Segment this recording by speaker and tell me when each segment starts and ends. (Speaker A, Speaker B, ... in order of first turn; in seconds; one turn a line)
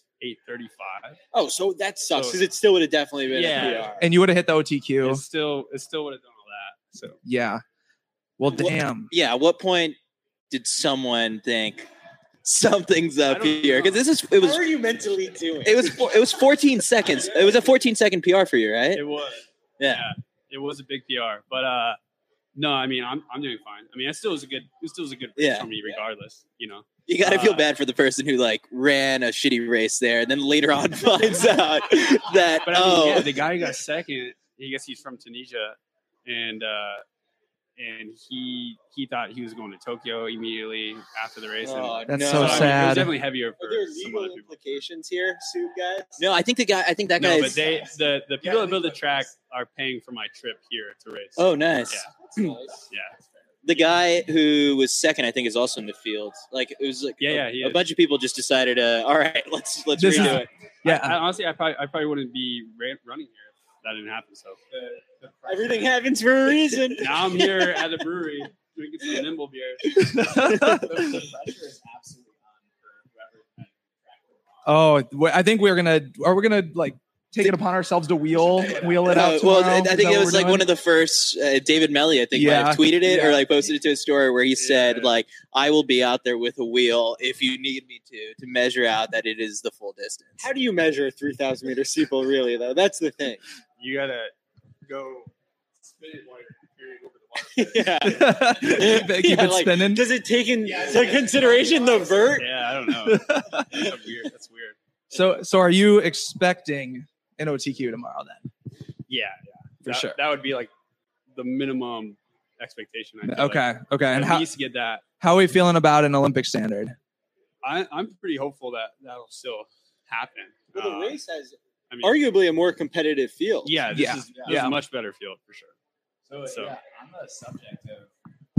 Speaker A: 0.2-1.2
Speaker B: 1.3-4.0
Speaker A: 2.1-2.4
Speaker A: 3.3-3.9
Speaker C: 4.0-5.2
Speaker A: 5.0-7.2
Speaker C: 7.2-7.6
Speaker C: 8.4-9.1
Speaker D: 9.1-9.9
Speaker D: 10.5-11.9
Speaker D: 12.4-14.6
Speaker A: 13.2-14.1
Speaker B: 14.3-16.0
Speaker D: 15.6-19.0
Speaker A: 18.9-22.0
Speaker D: 19.8-20.1
Speaker A: 22.5-27.7
Speaker D: 25.4-25.7
Speaker D: 27.1-33.4
Speaker B: 31.4-31.7
Speaker A: 32.6-37.0
Speaker A: 37.8-44.8
Speaker D: 41.6-42.9
Speaker C: 42.1-43.1
Speaker B: 42.2-46.2
Speaker D: 46.2-47.6
Speaker A: 47.2-52.1
Speaker E: 47.6-49.3
Speaker D: 51.4-52.0
Speaker B: 52.3-52.8
Speaker A: 52.9-53.2
Speaker D: 53.6-60.5
Speaker A: 57.2-57.9
Speaker C: 59.9-61.2
Speaker A: 60.1-64.6
Speaker E: 64.7-65.9
Speaker B: 65.5-67.8
Speaker A: 67.0-70.6
Speaker C: 70.0-71.0
Speaker E: 70.6-74.6
Speaker C: 74.6-80.7
Speaker E: 78.4-79.2
Speaker D: 79.1-90.5
Speaker C: 82.3-83.4
Speaker A: 84.6-85.2
Speaker B: 90.4-93.4
Speaker A: 93.8-94.3
Speaker A: 94.8-95.3
Speaker A: 95.8-98.0
Speaker B: 97.5-102.5
Speaker C: 98.0-100.0
Speaker E: 100.7-102.0
Speaker A: 102.3-104.8
Speaker C: 103.0-103.9
Speaker C: 105.1-108.5
Speaker A: 109.1-110.7
Speaker C: 109.8-110.2
Speaker A: 111.3-115.0
Speaker C: 113.2-114.5
Speaker C: 115.2-117.0
Speaker A: 117.6-121.2
Speaker B: 120.7-123.8
Speaker A: 121.9-122.2
Speaker A: 123.6-125.7
Speaker C: 123.9-124.8
Speaker E: 126.3-128.1
Speaker A: 126.5-126.7